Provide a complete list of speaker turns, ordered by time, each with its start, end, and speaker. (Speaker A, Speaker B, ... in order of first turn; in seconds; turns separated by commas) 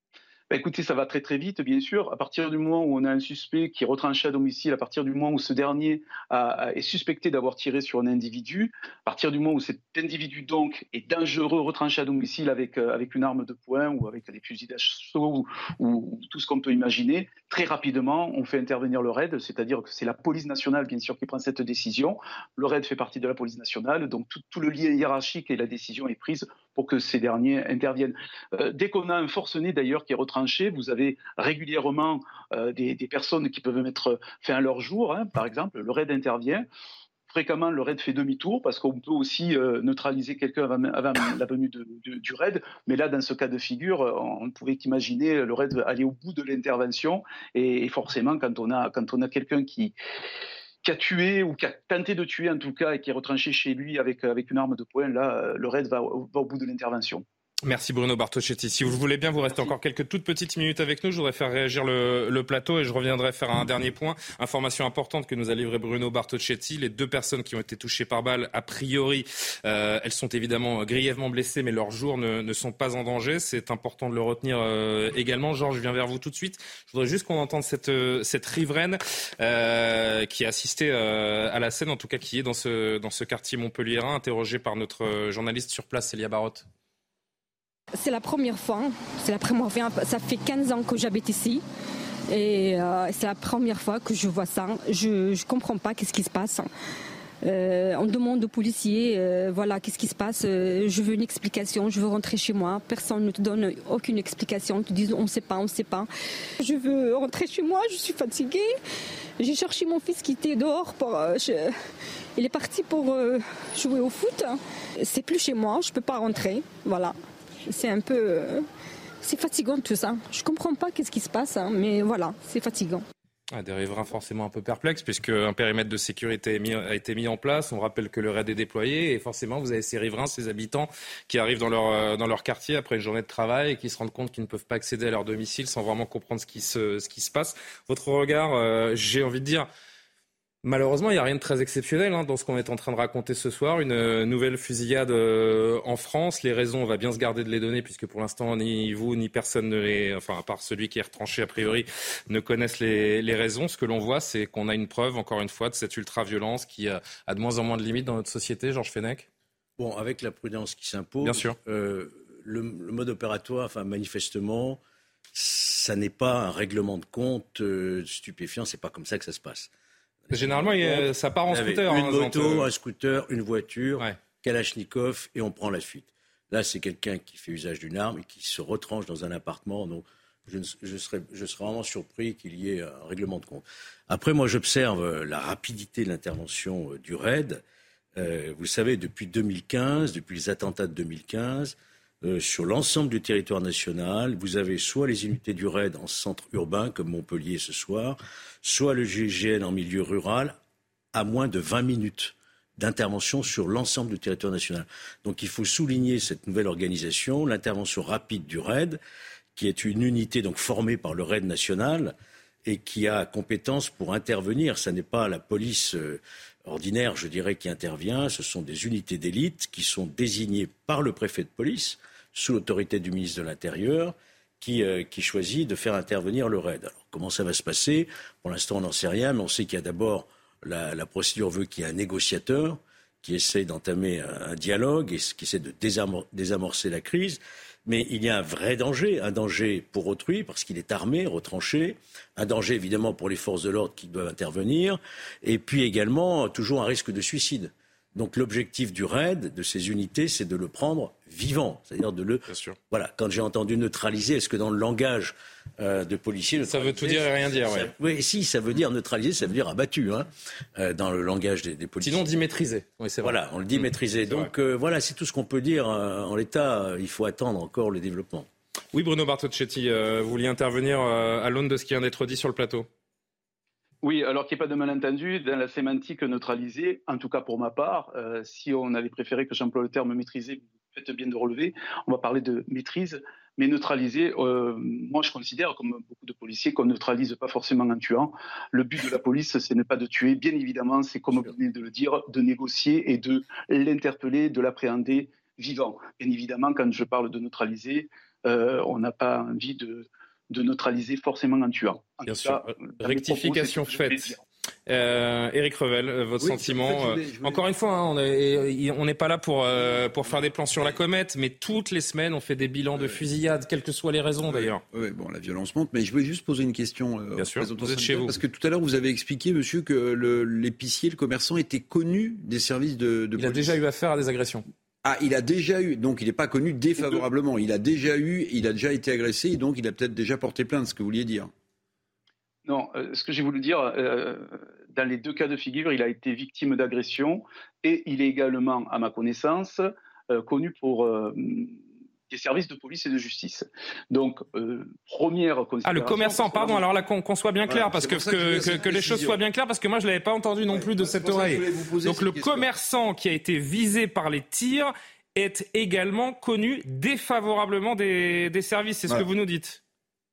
Speaker A: 0.5-36.7, Speaker A: 37.3-50.0, Speaker A: 50.8-57.2, Speaker B: 57.6-86.7, Speaker C: 87.9-91.6, Speaker C: 92.3-96.7, Speaker C: 97.4-106.1, Speaker C: 106.6-108.7, Speaker C: 109.4-111.7, Speaker C: 112.4-117.2, Speaker C: 117.7-118.7, Speaker C: 119.2-123.0, Speaker B: 123.5-139.7, Speaker B: 140.6-159.3, Speaker D: 159.8-164.8, Speaker B: 161.2-161.6, Speaker D: 165.3-169.7, Speaker D: 170.3-187.6, Speaker B: 170.3-172.7, Speaker D: 188.2-200.6, Speaker D: 201.1-209.0, Speaker D: 209.6-262.2, Speaker B: 252.5-252.8, Speaker B: 256.6-257.9, Speaker B: 262.0-264.5, Speaker D: 263.2-268.5, Speaker B: 268.9-272.9, Speaker A: 274.0-304.4, Speaker B: 302.3-304.3, Speaker B: 304.9-314.8, Speaker E: 306.4-307.6, Speaker E: 309.8-311.0, Speaker E: 312.9-313.2, Speaker E: 314.5-323.8, Speaker B: 317.4-318.4, Speaker B: 323.4-324.6, Speaker E: 325.0-331.5, Speaker A: 332.7-346.8, Speaker B: 345.9-359.8, Speaker E: 347.6-349.4, Speaker E: 350.7-352.7